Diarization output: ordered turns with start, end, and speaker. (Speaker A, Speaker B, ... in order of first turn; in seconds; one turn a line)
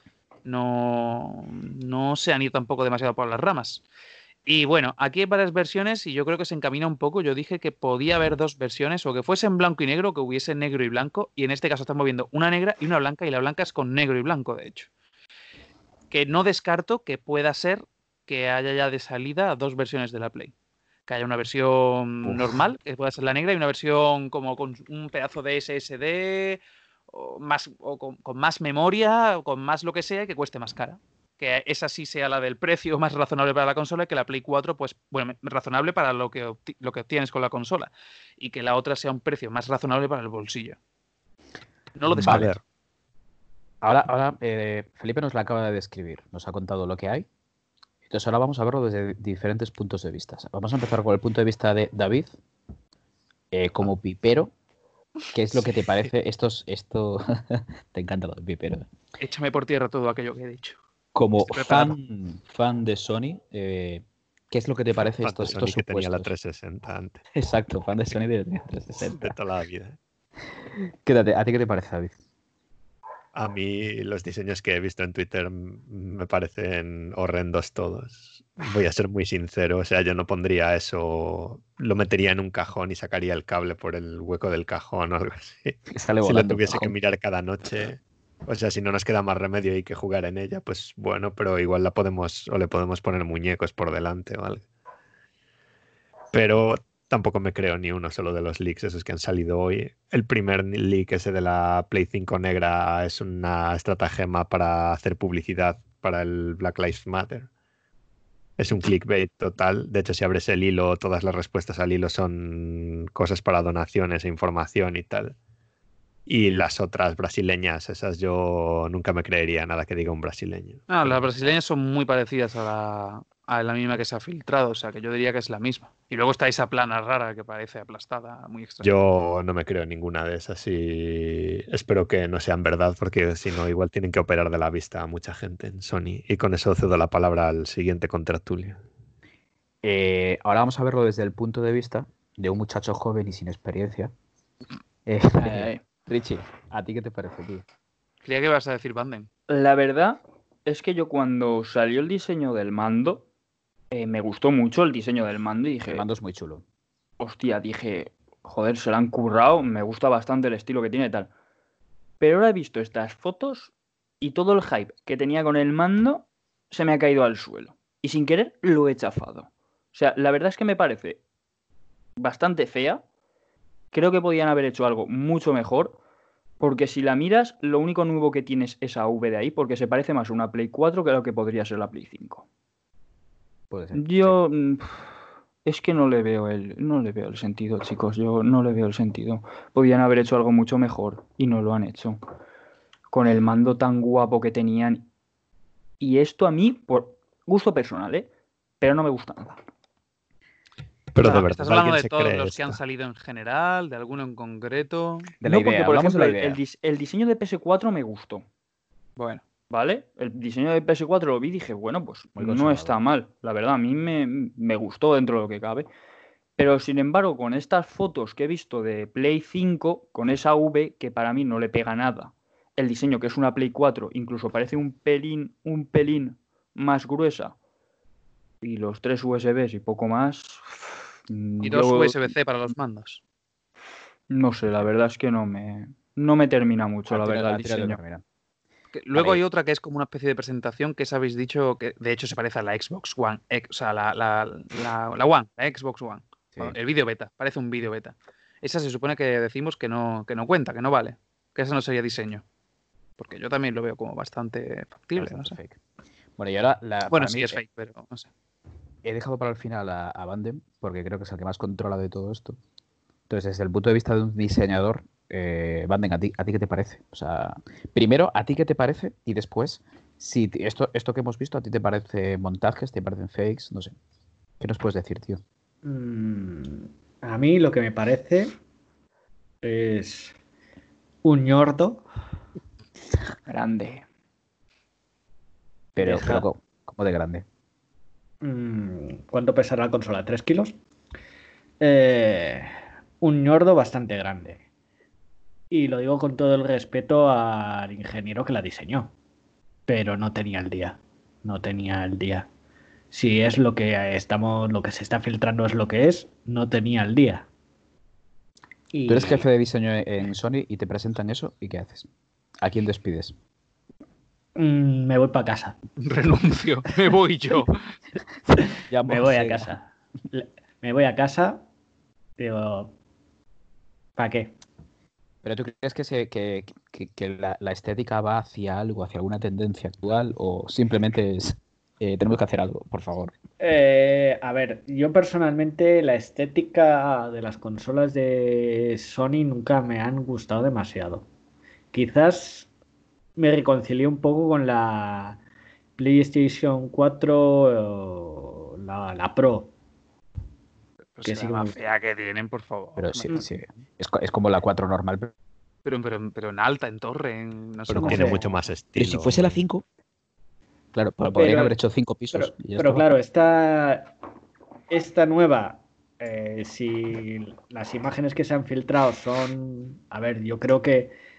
Speaker A: 0.5-3.8
Speaker A: 4.5-14.9
Speaker A: 16.1-20.5
Speaker A: 21.1-40.8
Speaker B: 22.2-22.5
Speaker A: 42.0-42.6
Speaker C: 42.1-42.6
Speaker B: 42.2-42.5
Speaker B: 43.8-47.3
Speaker B: 48.1-52.4
Speaker B: 53.5-54.5
Speaker B: 55.3-58.9
Speaker A: 59.2-60.8
Speaker B: 61.1-66.3
Speaker A: 61.4-62.0
Speaker C: 65.2-67.2
Speaker B: 67.3-69.3
Speaker C: 69.1-70.0
Speaker B: 70.7-72.2
Speaker C: 73.4-94.6
Speaker B: 85.9-86.9
Speaker C: 96.3-107.5
Speaker C: 108.6-115.3
Speaker C: 116.3-121.3
Speaker A: 120.9-129.1
Speaker C: 128.8-138.8
Speaker B: 139.8-144.1
Speaker B: 145.1-147.6
Speaker D: 145.4-145.8
Speaker A: 148.2-149.3
Speaker D: 149.5-153.3
Speaker D: 153.9-156.1
Speaker B: 155.9-156.6
Speaker D: 157.2-161.3
Speaker D: 162.2-171.2
Speaker D: 172.2-173.0
Speaker D: 173.9-176.0
Speaker D: 176.6-182.4
Speaker B: 183.7-184.4
Speaker D: 183.9-185.1
Speaker D: 185.7-192.2
Speaker D: 193.1-195.1
Speaker D: 196.0-199.6
Speaker C: 201.1-202.8
Speaker A: 201.2-205.3
Speaker B: 205.4-206.6
Speaker D: 205.4-208.5
Speaker A: 209.2-209.5
Speaker D: 209.7-215.9
Speaker B: 212.4-212.9
Speaker D: 216.6-227.6
Speaker D: 228.6-232.3
Speaker A: 231.6-233.2
Speaker D: 234.3-238.0
Speaker B: 237.1-238.2
Speaker A: 238.9-252.4
Speaker B: 239.1-239.4
Speaker A: 253.2-255.6
Speaker B: 255.2-255.8
Speaker B: 256.4-257.6
Speaker A: 257.1-258.3
Speaker B: 259.0-262.6
Speaker B: 263.3-274.0
Speaker B: 274.6-275.4
Speaker E: 275.8-278.6
Speaker E: 279.6-280.4
Speaker E: 281.2-282.1
Speaker D: 283.5-284.1
Speaker B: 286.0-287.4
Speaker E: 286.0-286.5
Speaker E: 288.4-290.8
Speaker E: 291.8-294.6
Speaker E: 295.7-299.1
Speaker E: 299.9-302.5
Speaker E: 303.1-307.5
Speaker E: 308.9-309.5
Speaker B: 309.1-312.1
Speaker B: 312.6-313.4
Speaker E: 314.6-315.8
Speaker A: 316.0-317.8
Speaker B: 318.5-319.7
Speaker E: 319.1-321.6
Speaker E: 322.4-322.9
Speaker E: 324.2-324.6
Speaker B: 325.4-333.3
Speaker E: 333.6-341.3
Speaker E: 341.9-342.7
Speaker E: 343.4-345.4
Speaker E: 346.0-349.7
Speaker A: 351.1-353.3
Speaker E: 351.2-351.8
Speaker B: 353.0-355.3
Speaker A: 355.9-358.6
Speaker C: 357.9-359.6
Speaker B: 357.9-358.3
Speaker E: 358.1-358.4
Speaker B: 359.0-359.9
Speaker B: 360.9-363.1
Speaker E: 361.4-361.8
Speaker E: 362.3-364.1
Speaker E: 364.9-371.1